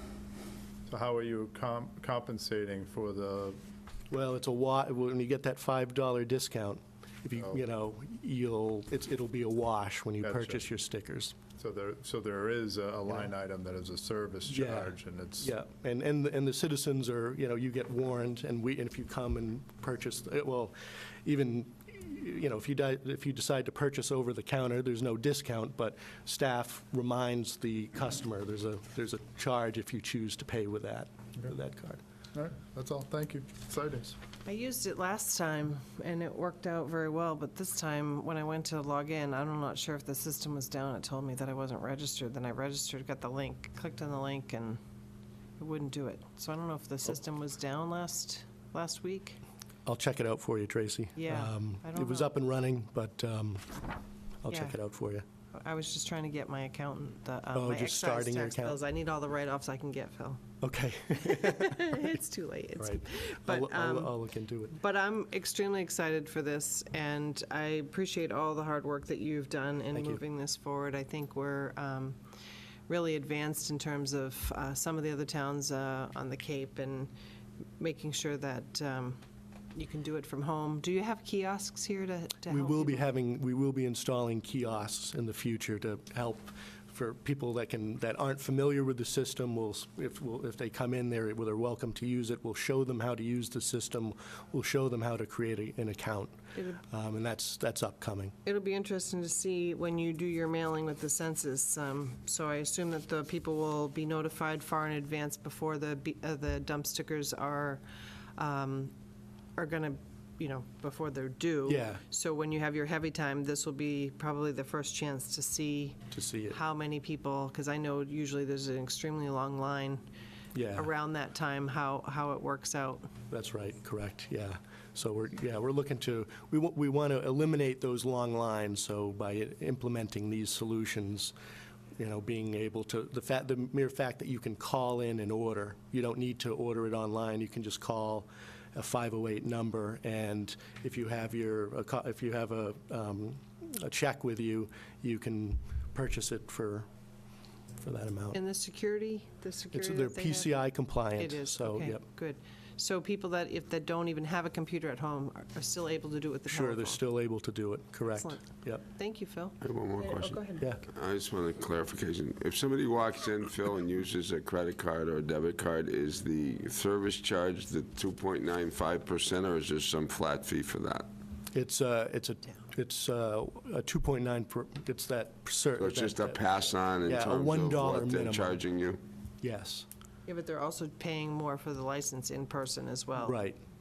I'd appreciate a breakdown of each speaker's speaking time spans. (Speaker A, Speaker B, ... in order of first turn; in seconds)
Speaker A: 0.9-3.6, 7.3-7.6, 10.2-10.6, 11.6-15.5, 32.3-34.2
Speaker B: 4.1-11.3, 14.5-32.0, 49.9-53.8, 54.4-55.2, 57.5-58.8, 60.6-61.8, 62.8-64.8, 69.9-70.2, 82.5-98.3, 111.7-112.0, 116.1-116.6, 120.5-120.9, 123.3-131.3, 132.0-146.9, 147.8-148.4, 149.7-152.0, 156.4-158.8, 171.5-178.6, 179.4-179.8, 183.2-183.6
Speaker C: 34.4-44.8, 45.6-49.4, 51.1-52.3, 54.5-54.8, 55.5-60.5, 61.1-64.2, 64.7-72.2, 72.9-77.1, 77.8-79.2, 79.7-83.1, 96.5-96.8, 98.4-108.9, 109.5-120.0, 120.7-123.1, 148.3-157.0, 158.1-160.8, 180.2-183.3
Speaker D: 159.6-171.1, 175.8-179.0